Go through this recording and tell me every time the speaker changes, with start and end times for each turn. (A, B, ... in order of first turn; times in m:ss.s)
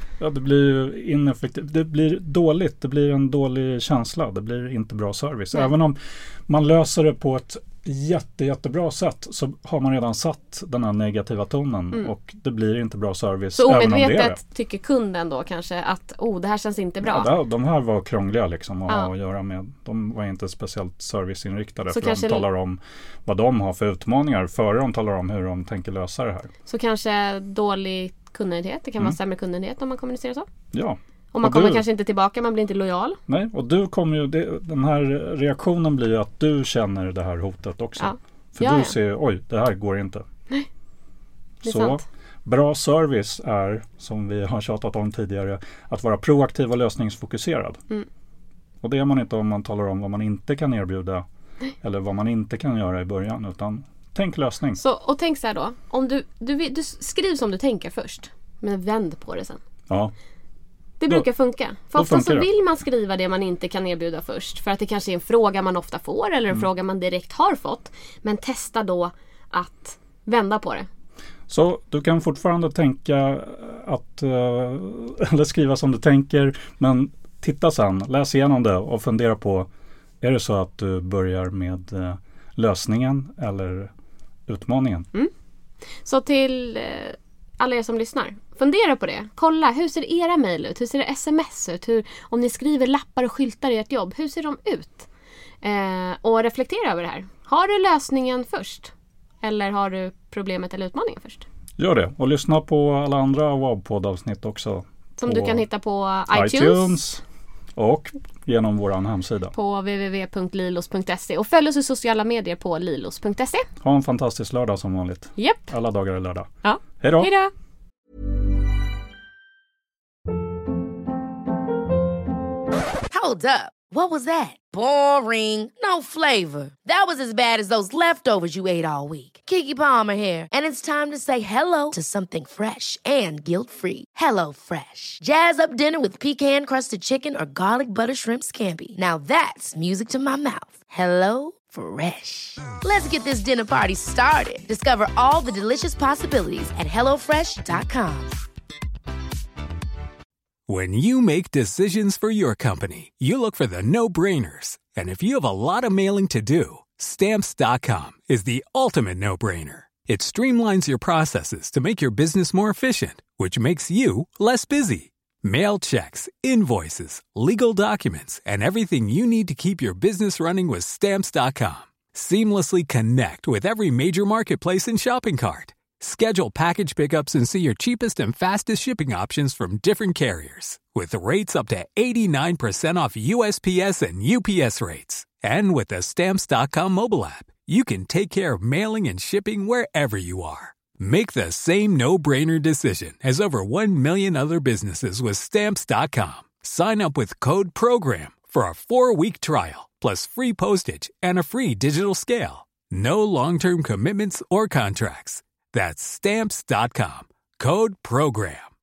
0:00.2-0:14.4 A
0:13.6-0:17.3 B
0:17.0-0:26.5 A
0:21.9-0:22.5 B
0:26.7-0:30.5 B
0:30.7-0:31.8 A
0:31.3-0:33.2 B
0:33.3-0:40.2 A
0:38.0-0:39.0 B
0:41.6-0:42.0 B
0:41.6-0:47.8 A
0:48.8-0:51.2 A
0:51.8-0:54.8 A
0:54.8-0:59.6 B
1:01.0-1:10.9 B
1:01.8-1:02.5 A
1:11.5-1:19.7 A
1:20.2-1:23.9 A
1:24.5-1:25.1 A
1:26.0-1:35.1 B
1:35.6-1:41.4 B
1:41.8-1:45.7 A
1:45.2-1:47.0 B
1:46.3-1:47.2 A
1:47.8-1:49.6 A
1:49.5-1:53.7 B
1:53.8-1:57.3 A
1:55.4-1:55.7 B
1:56.6-1:57.5 B
2:03.1-2:28.4 C
2:30.7-3:28.7 D